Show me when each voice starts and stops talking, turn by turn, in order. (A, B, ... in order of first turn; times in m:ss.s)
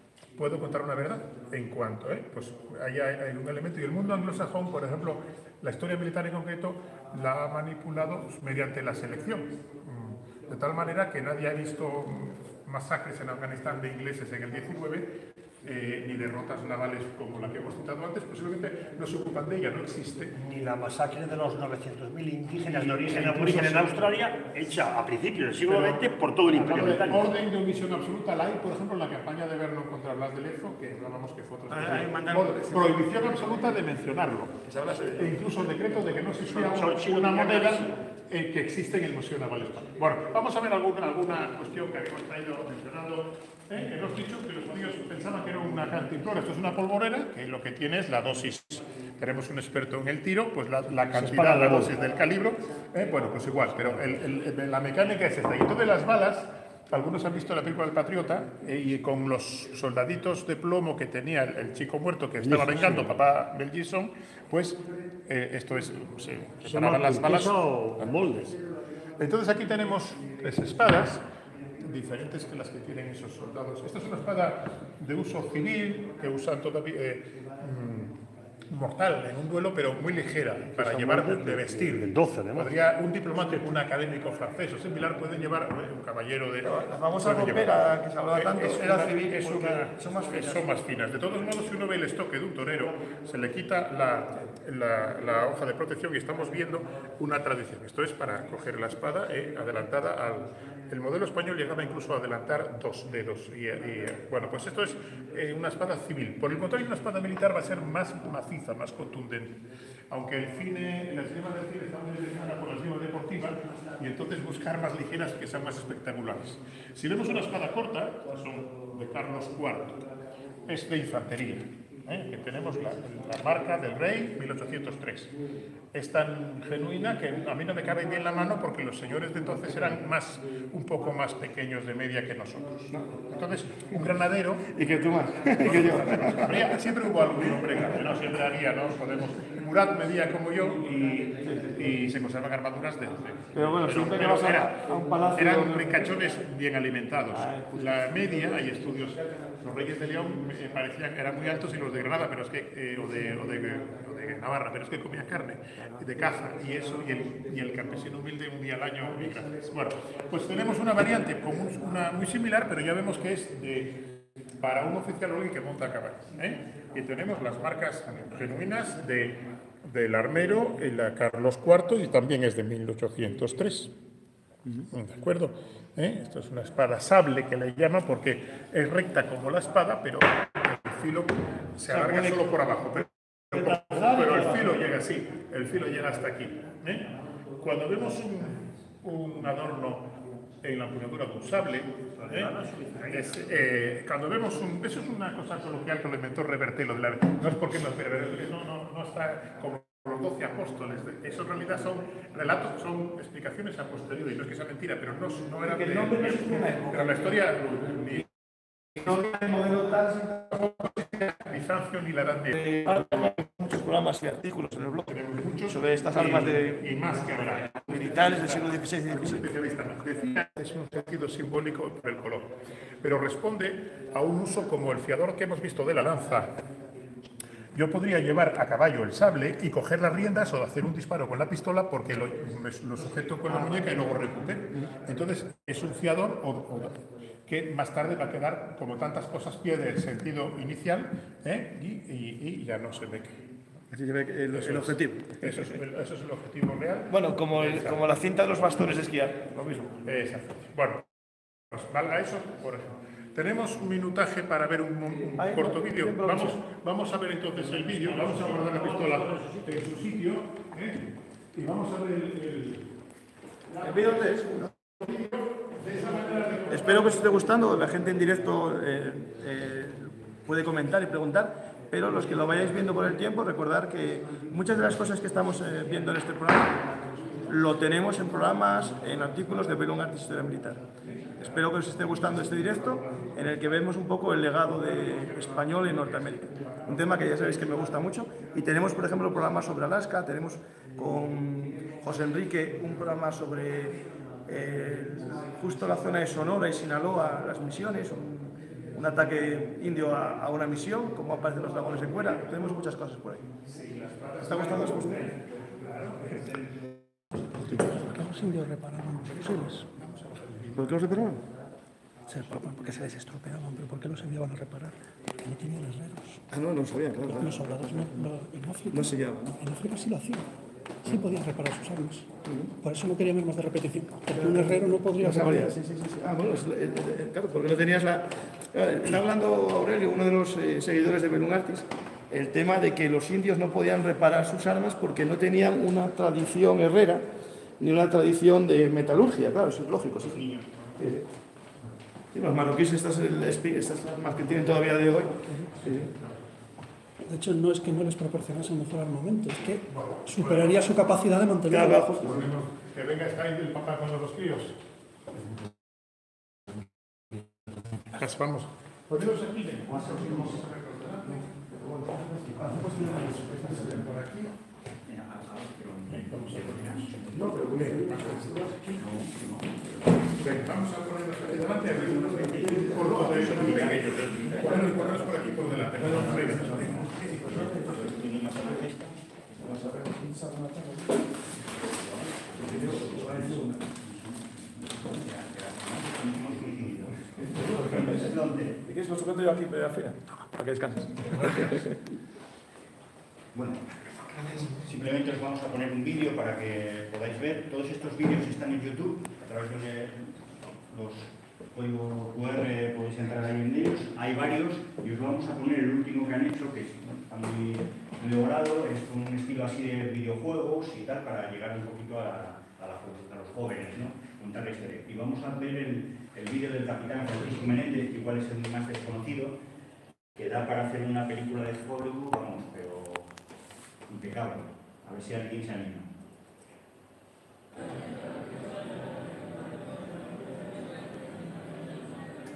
0:00.4-0:15.1 A
0:15.6-0:20.3 A
0:20.4-0:27.3 B
0:22.6-0:24.2 A
0:25.6-0:34.6 A
0:31.7-0:33.2 C
0:34.6-0:35.4 C
0:35.1-1:07.6 A
0:36.5-0:38.0 B
0:51.1-0:51.9 B
1:02.4-1:03.1 B
1:06.6-1:08.6 B
1:09.2-1:11.2 A
1:11.8-2:00.1 A
1:20.8-1:22.7 B
1:26.6-1:30.7 C
2:00.6-2:05.4 A
2:05.9-2:14.8 A
2:14.7-2:16.7 C
2:15.4-2:53.9 A
2:21.4-2:21.7 C
2:23.5-2:26.1 C
2:27.3-2:28.7 C
2:54.9-3:28.3 A
3:03.5-3:04.9 B
3:12.2-3:13.5 B
3:25.6-3:27.6 C
3:28.9-3:29.4 A
3:29.0-3:30.7 C
3:30.5-3:33.1 A
3:32.5-3:36.8 C
3:35.1-3:46.6 A
3:37.9-3:39.5 C
3:47.7-4:03.4 A
4:03.9-4:05.7 C
4:04.5-4:08.2 A
4:07.1-4:10.0 C
4:10.0-4:11.0 A
4:11.7-4:22.9 A
4:15.2-4:16.6 C
4:17.6-4:20.0 B
4:23.7-4:27.6 A
4:23.8-4:24.7 C
4:26.7-4:36.8 C
4:37.4-5:03.4 C
4:41.4-4:43.3 A
4:45.0-4:47.3 A
5:01.9-5:02.8 A
5:03.6-5:06.8 A
5:04.4-5:05.4 C
5:07.5-5:10.0 D
5:10.0-5:11.0 A
5:10.7-5:11.4 C
5:12.3-5:16.4 D
5:16.5-5:17.7 C
5:17.2-5:20.5 D
5:18.9-5:19.6 C
5:21.0-5:25.8 D
5:24.3-5:37.2 C
5:37.8-5:40.4 C
5:40.2-5:41.0 A
5:41.0-5:41.2 C
5:42.3-5:46.1 C
5:45.5-5:46.4 A
5:47.3-5:52.1 D
5:49.9-5:51.0 A
5:51.7-5:52.5 C
5:52.2-5:54.8 A
5:58.1-6:01.5 A
5:59.9-6:00.6 E
6:00.0-6:00.4 C
6:01.6-6:04.4 C
6:03.1-6:04.1 E
6:05.0-6:08.4 E
6:06.1-6:07.2 A
6:07.3-6:09.0 C
6:07.7-6:08.5 A
6:08.9-6:10.1 E
6:10.4-6:17.2 A
6:12.0-6:19.2 E
6:12.2-6:15.0 C
6:16.0-6:18.2 C
6:19.6-6:21.3 C
6:21.8-6:28.8 E
6:22.5-6:23.8 C
6:27.4-6:32.0 C
6:33.5-6:33.8 E
6:34.8-6:59.6 E
7:00.3-7:03.3 E
7:04.1-7:06.1 E